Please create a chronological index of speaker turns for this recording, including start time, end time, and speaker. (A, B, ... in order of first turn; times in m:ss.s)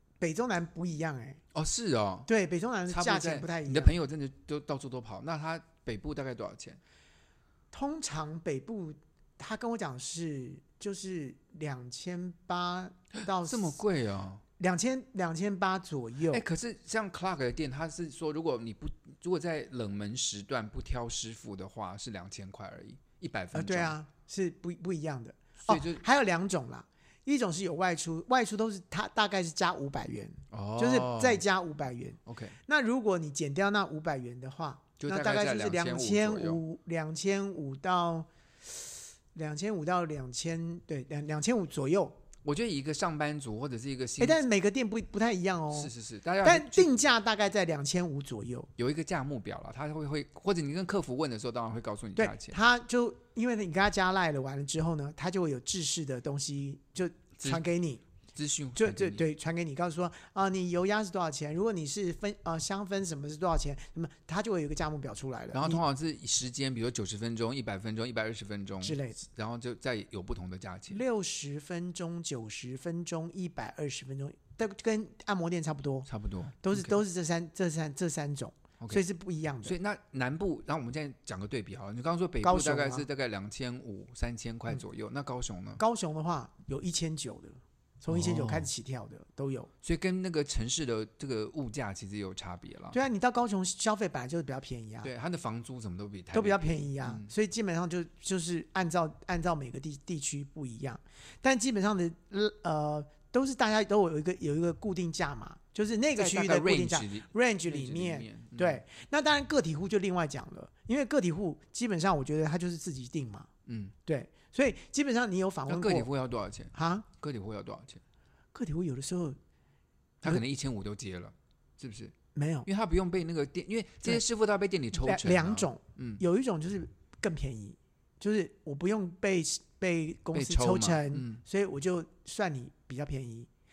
0:00.2-0:01.4 A
0:01.5-0:02.3 B
0:02.3-0:03.9 A
0:02.9-0:06.8 B
0:07.7-0:13.8 A
0:13.4-0:14.4 B
0:14.6-0:16.4 A
0:16.3-0:24.0 B
0:23.5-0:38.8 A
0:25.7-0:26.0 B
0:30.5-0:31.4 B
0:32.3-0:32.6 B
0:35.0-0:36.6 B
0:39.4-0:42.2 A
0:42.4-0:44.4 B
0:44.2-0:45.9 A
0:45.7-0:46.9 B
0:46.4-0:48.7 A
0:48.8-0:52.6 B
0:52.2-0:58.0 A
0:57.4-0:57.6 B
0:58.4-0:59.2 B
0:58.8-1:05.8 A
1:05.5-1:11.0 B
1:08.8-1:09.2 A
1:10.9-1:16.1 A
1:16.1-1:17.0 B
1:16.6-1:19.8 A
1:19.6-1:25.8 B
1:22.4-1:23.1 A
1:25.8-1:29.7 A
1:28.1-1:28.7 B
1:29.8-1:33.0 B
1:32.9-1:35.1 A
1:35.0-1:37.3 B
1:36.3-1:53.5 A
1:46.2-1:48.8 B
1:53.7-1:53.9 B
1:54.1-1:56.1 A
1:55.7-1:58.0 B
1:56.7-1:57.1 A
1:58.5-1:59.4 A
2:00.2-2:02.1 B
2:02.4-2:02.7 A
2:02.7-2:06.2 B
2:04.9-2:13.5 A
2:10.3-2:11.4 B